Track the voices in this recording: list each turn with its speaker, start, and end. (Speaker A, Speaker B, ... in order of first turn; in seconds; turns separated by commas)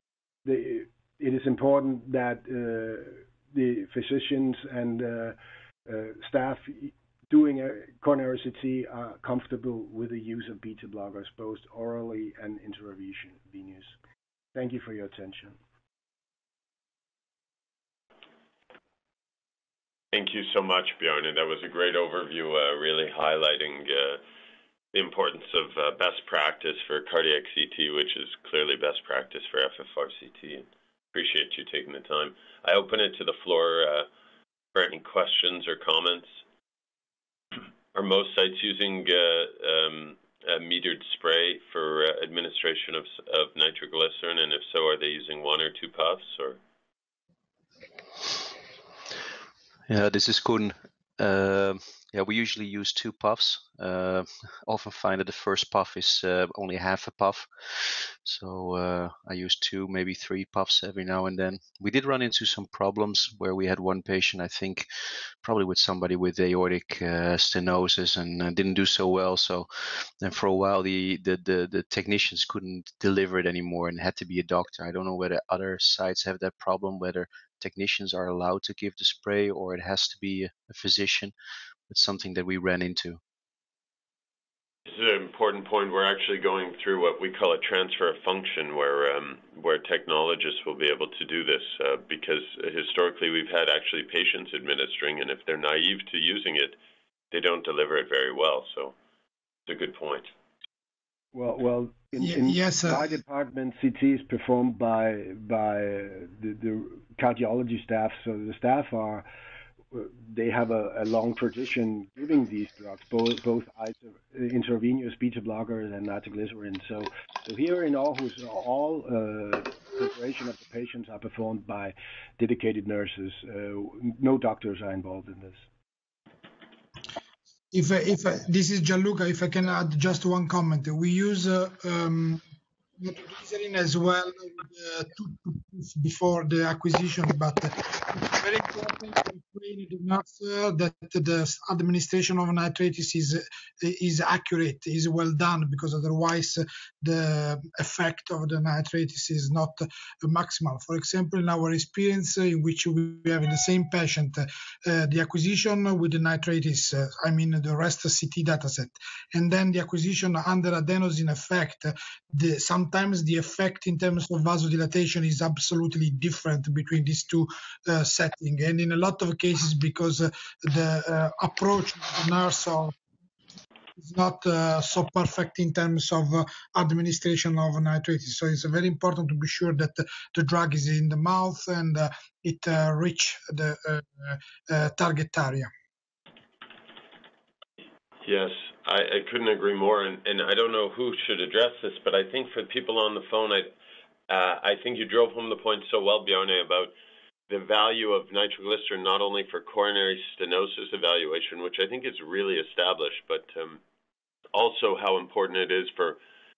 Speaker A: 0.4-13.9, Speaker A: 14.5-15.6, Speaker B: 20.1-24.2, Speaker B: 24.9-34.1, Speaker B: 34.7-36.4, Speaker B: 37.9-46.6, Speaker C: 49.9-81.3, Speaker C: 81.9-83.2, Speaker B: 84.8-96.8, Speaker B: 97.3-98.9, Speaker B: 99.7-100.3, Speaker A: 101.3-109.3, Speaker D: 102.2-103.0, Speaker A: 109.9-125.7, Speaker D: 127.7-132.4, Speaker D: 133.0-172.9, Speaker D: 174.0-185.7, Speaker B: 188.2-193.7, Speaker B: 194.3-196.9, Speaker B: 197.5-203.8, Speaker B: 204.5-206.2